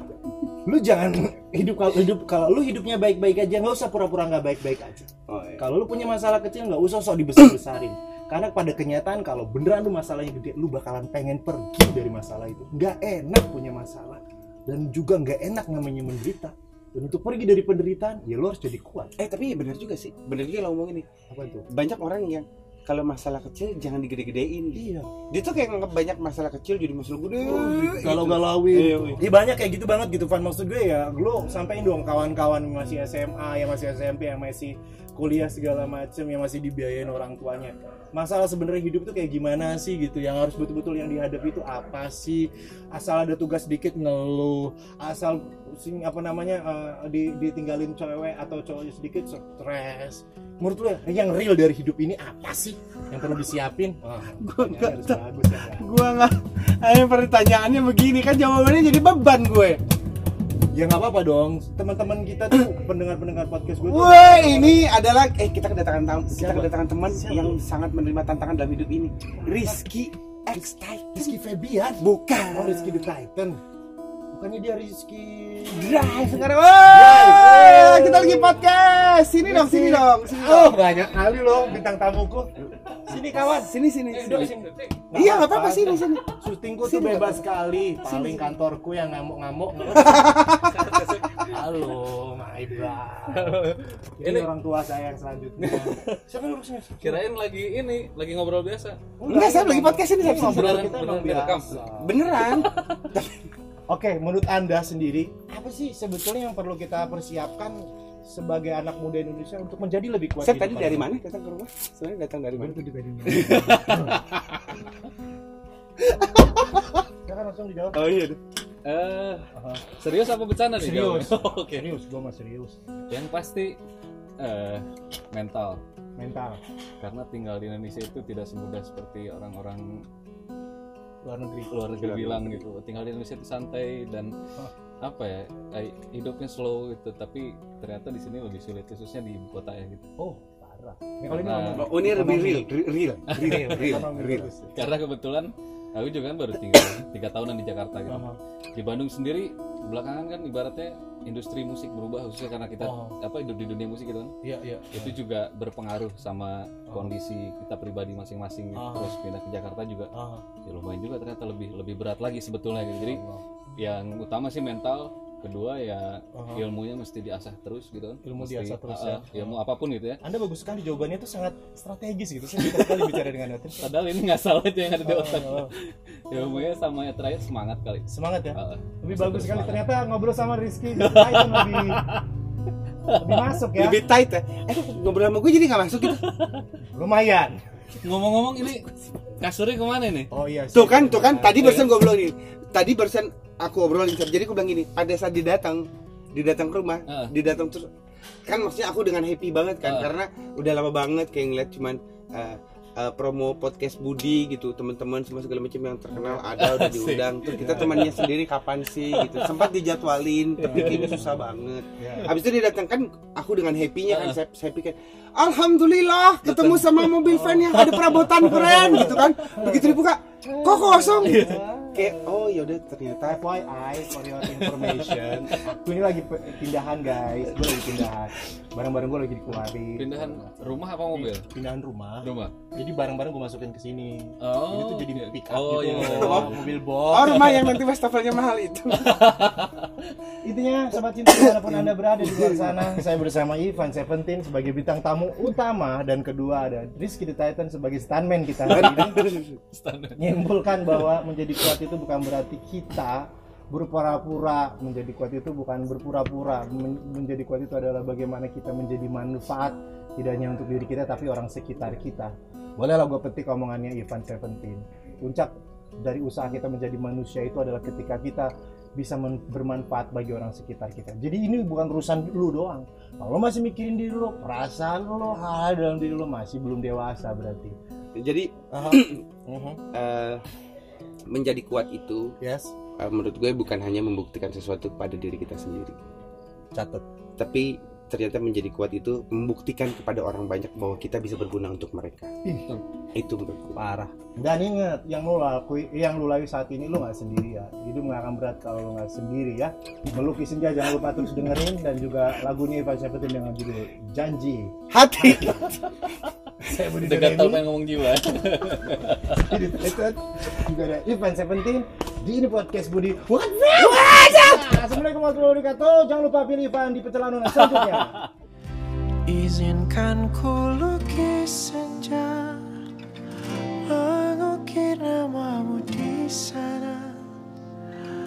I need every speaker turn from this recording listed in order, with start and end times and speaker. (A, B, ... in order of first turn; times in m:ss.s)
0:00.7-0:19.1 A
0:05.3-0:05.6 B
0:19.2-0:21.0 B
0:21.3-0:21.7 A
0:21.7-0:29.2 B
0:24.8-0:25.1 A
0:27.4-0:55.9 A
0:54.4-0:59.8 B
1:00.7-1:04.9 A
1:03.8-1:11.3 B
1:06.3-1:07.6 A
1:09.4-1:09.9 A
1:10.5-1:13.6 A
1:12.0-1:13.1 B
1:14.3-1:18.7 A
1:15.7-1:20.8 B
1:19.4-1:22.5 A
1:22.7-1:24.5 B
1:23.1-1:30.5 A
1:24.1-1:25.0 C
1:25.1-1:26.2 B
1:26.8-1:27.4 B
1:28.1-1:28.4 C
1:30.0-1:31.5 B
1:30.6-1:32.2 C
1:31.5-1:37.2 A
1:33.3-1:34.5 C
1:35.6-1:36.2 C
1:37.0-1:39.0 C
1:39.2-1:42.2 A
1:39.3-1:43.5 B
1:40.2-1:41.8 C
1:42.4-1:43.1 C
1:43.9-1:47.8 A
1:48.3-1:51.1 A
1:50.4-1:54.1 B
1:52.6-1:54.2 A
1:53.4-1:54.6 C
1:56.1-1:57.0 B
1:57.2-1:58.0 A
1:57.9-1:58.4 B
1:58.8-2:01.9 C
1:59.6-1:59.8 A
2:00.8-2:02.8 A
2:03.1-2:03.8 C
2:04.4-2:05.8 C
2:06.2-2:06.6 A
2:07.0-2:10.0 C
2:11.2-2:11.7 A
2:11.7-2:14.3 C
2:12.0-2:12.6 B
2:15.0-2:20.0 C
2:20.2-2:22.7 A
2:21.3-2:21.9 C
2:21.8-2:24.5 B
2:23.3-2:24.8 A
2:23.3-2:24.1 C
2:24.8-2:34.3 C
2:28.1-2:28.4 A
2:32.8-2:33.2 A
2:34.4-2:35.2 A
2:34.9-2:40.1 C
2:38.8-2:39.2 A
2:40.1-2:40.4 A
2:40.6-2:43.2 C
2:43.0-2:43.4 A
2:43.8-2:50.2 C
2:46.4-2:46.6 A
2:48.2-2:49.6 A
2:50.2-2:53.9 A
2:52.6-2:53.3 C
2:53.8-2:59.9 C
2:55.0-2:55.7 A
2:58.1-3:02.0 A
3:01.0-3:02.3 C
3:03.1-3:03.5 C
3:03.2-3:04.0 A
3:03.8-3:06.2 B
3:06.1-3:06.6 C
3:06.8-3:07.6 A
3:08.0-3:10.3 C
3:10.3-3:11.7 A
3:10.7-3:17.9 B
3:11.6-3:12.0 C
3:18.4-3:43.4 B
3:19.8-3:20.1 C
3:26.2-3:26.4 A
3:26.6-3:28.3 C
3:27.6-3:28.1 A
3:29.1-3:29.7 C
3:30.6-3:31.2 C
3:30.6-3:31.4 A
3:32.0-3:32.3 A
3:34.1-3:34.4 C
3:36.4-3:37.2 C
3:37.3-3:37.7 A
3:37.7-3:39.3 C
3:38.7-3:42.4 A
3:41.2-3:41.6 C
3:43.3-3:57.8 A
3:44.5-3:45.6 C
3:47.6-3:48.0 C
3:50.0-3:51.5 C
3:52.2-3:52.6 C
3:54.4-3:57.8 C
3:55.8-3:59.2 B
3:59.0-4:00.1 C
4:00.4-4:09.2 A
4:01.3-4:02.8 B
4:08.7-4:10.9 C
4:08.7-4:09.6 B
4:10.2-4:25.5 A
4:26.0-4:37.8 A
4:38.2-4:39.2 B
4:38.7-4:39.8 A
4:39.9-4:40.4 B
4:41.3-4:42.3 B
4:42.4-4:42.7 A
4:43.0-4:46.0 B
4:46.7-4:47.0 A
4:47.4-4:52.3 B
4:52.4-4:52.8 A
4:53.2-4:53.8 B
4:53.8-5:05.6 A
5:04.9-5:06.2 B
5:06.6-5:07.6 A
5:06.9-5:09.6 C
5:09.3-5:18.2 A
5:13.8-5:14.8 B
5:17.5-5:18.3 C
5:19.3-5:22.7 D
5:23.8-5:27.2 D